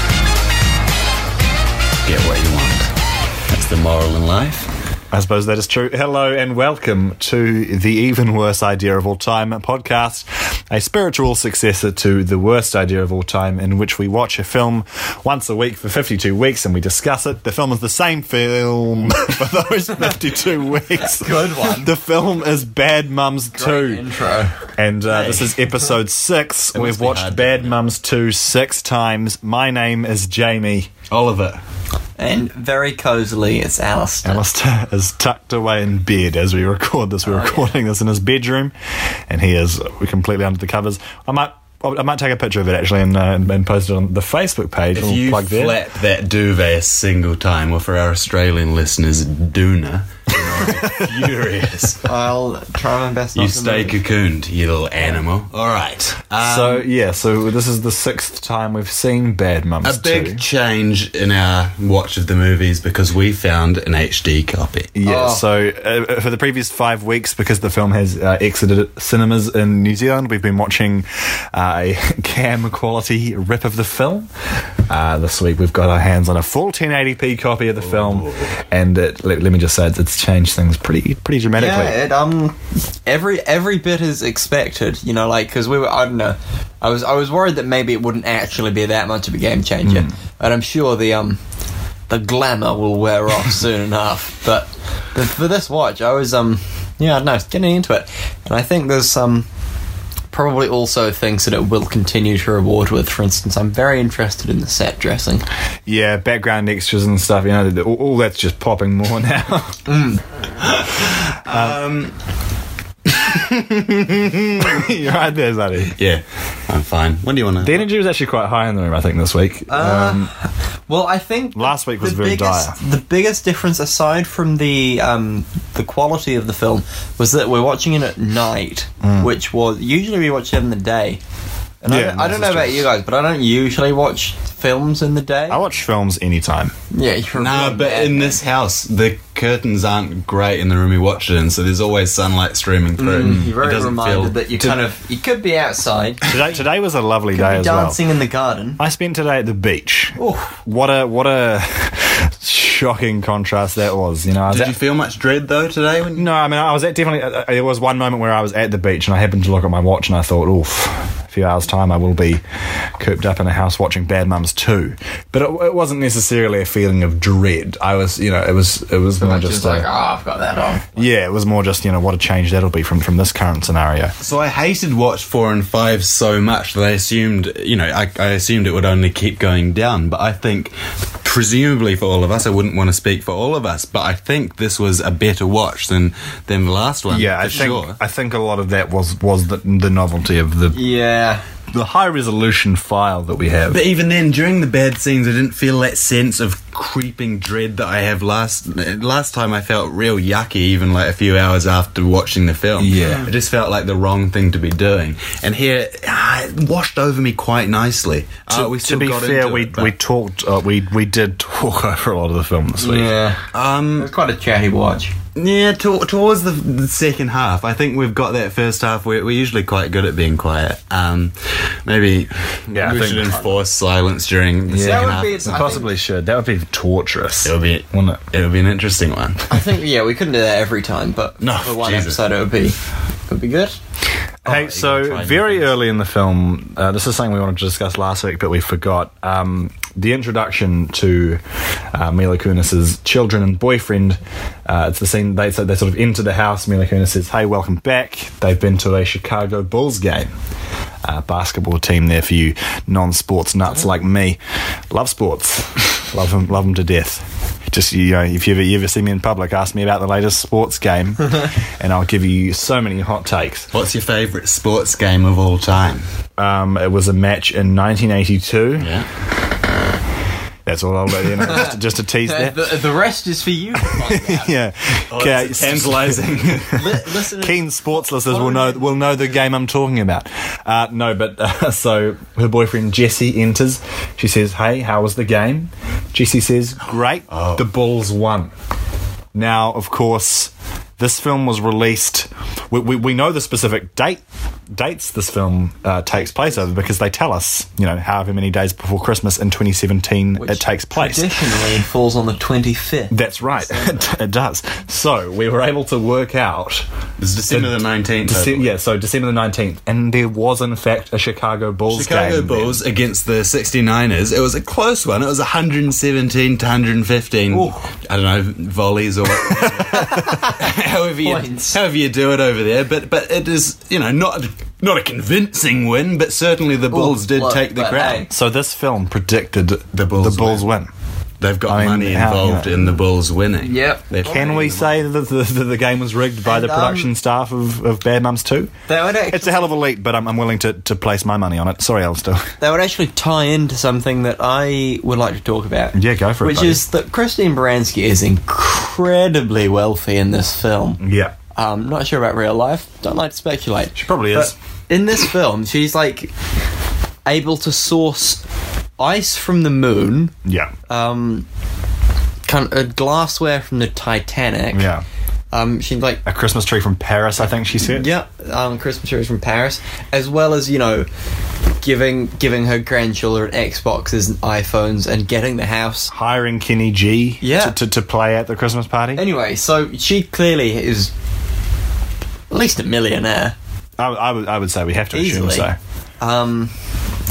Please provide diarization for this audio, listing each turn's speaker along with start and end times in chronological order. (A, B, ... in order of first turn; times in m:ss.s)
0:02.0-0:02.9 A
0:03.5-0:04.7 A
0:05.1-0:24.0 B
0:21.0-0:21.9 C
0:23.6-0:24.6 C
0:24.8-0:30.9 B
0:25.1-0:25.5 A
0:26.7-0:27.7 A
0:31.1-0:31.6 A
0:32.2-0:34.4 C
0:34.2-0:38.7 B
0:37.2-0:37.7 C
0:39.3-0:45.8 B
0:44.9-0:52.1 A
0:50.5-0:51.0 B
0:52.0-0:54.0 C
0:53.3-0:56.8 A
0:56.4-1:00.4 B
0:59.8-1:04.9 A
1:04.9-1:14.3 B
1:05.0-1:05.4 C
1:14.9-1:22.0 B
1:18.0-1:18.5 A
1:21.5-1:31.4 C
1:32.1-1:39.4 C
1:40.3-1:45.4 C
1:45.8-1:49.9 B
1:49.9-1:50.2 C
1:50.6-1:52.1 A
1:51.5-1:51.8 B
1:53.0-1:54.8 A
1:54.6-1:56.0 B
1:56.0-1:57.8 A
1:57.6-2:00.3 B
1:59.7-2:11.2 C
2:01.5-2:02.8 B
2:09.0-2:09.3 B
2:11.8-2:15.6 C
2:11.9-2:12.8 B
2:15.5-2:16.7 B
2:16.9-2:18.4 C
2:17.4-2:24.7 A
2:23.0-2:26.4 C
2:23.2-2:23.5 B
2:26.2-2:28.0 B
2:27.3-2:28.8 C
2:28.8-2:34.8 B
2:30.2-2:30.5 C
2:34.5-2:36.3 A
2:36.2-2:42.4 B
2:43.0-2:49.9 B
2:49.2-2:51.1 C
2:51.0-2:54.1 B
2:54.2-3:08.0 A
3:07.1-3:10.8 B
3:10.7-3:11.4 C
3:11.7-3:13.8 B
3:13.7-3:29.9 A
3:22.8-3:23.3 B
3:28.5-3:33.1 B
3:32.8-3:33.4 C
3:33.5-3:34.1 A
3:34.0-3:35.1 C
3:35.4-3:45.7 A
3:42.7-3:43.4 B
3:43.0-3:43.6 C
3:44.7-3:48.2 B
3:44.8-3:45.9 C
3:47.4-3:49.6 A
3:49.5-3:52.8 C
3:51.4-3:52.2 A
3:53.3-3:53.8 C
3:54.4-4:01.4 B
3:54.4-3:55.6 A
4:01.9-4:10.3 B
4:11.0-4:14.4 B
4:14.9-4:23.7 B
4:23.7-4:26.0 A
4:26.4-4:28.9 B
4:28.8-4:29.1 A
4:30.6-4:32.7 B
4:31.4-4:34.5 C
4:33.8-4:48.5 B
4:35.1-4:37.0 A
4:36.7-4:38.9 C
4:47.3-4:47.6 A
4:49.3-4:54.2 B
4:54.7-5:01.3 B
5:00.4-5:03.1 C
5:03.1-5:06.8 B
5:07.2-5:08.7 A
5:07.5-5:12.8 B
5:11.9-5:28.3 A
5:17.5-5:17.8 C
5:19.9-5:20.7 C
5:21.2-5:21.8 C
5:26.9-5:28.3 C
5:28.3-5:30.9 B
5:29.9-5:30.6 A
5:31.4-5:34.9 A
5:31.7-5:32.7 B
5:33.6-5:34.5 C
5:34.2-5:38.7 B
5:36.4-5:37.1 C
5:38.9-5:39.7 C
5:39.3-5:42.5 B
5:42.6-5:51.0 C
5:45.9-5:46.8 B
5:51.0-5:51.3 B
5:51.5-5:56.3 C
5:53.9-5:54.5 B
5:57.2-5:58.4 C
5:59.0-6:00.3 C
6:00.4-6:00.7 B
6:00.9-6:01.4 C
6:02.4-6:04.9 C
6:04.7-6:05.0 B
6:05.5-6:06.2 C
6:06.2-6:08.1 B
6:07.8-6:11.1 C
6:11.8-6:16.1 C
6:16.1-6:19.2 B
6:17.4-6:17.8 C
6:19.2-6:21.1 C
6:22.5-6:23.5 C
6:24.0-6:25.8 B
6:25.1-6:25.7 C
6:26.2-6:26.7 C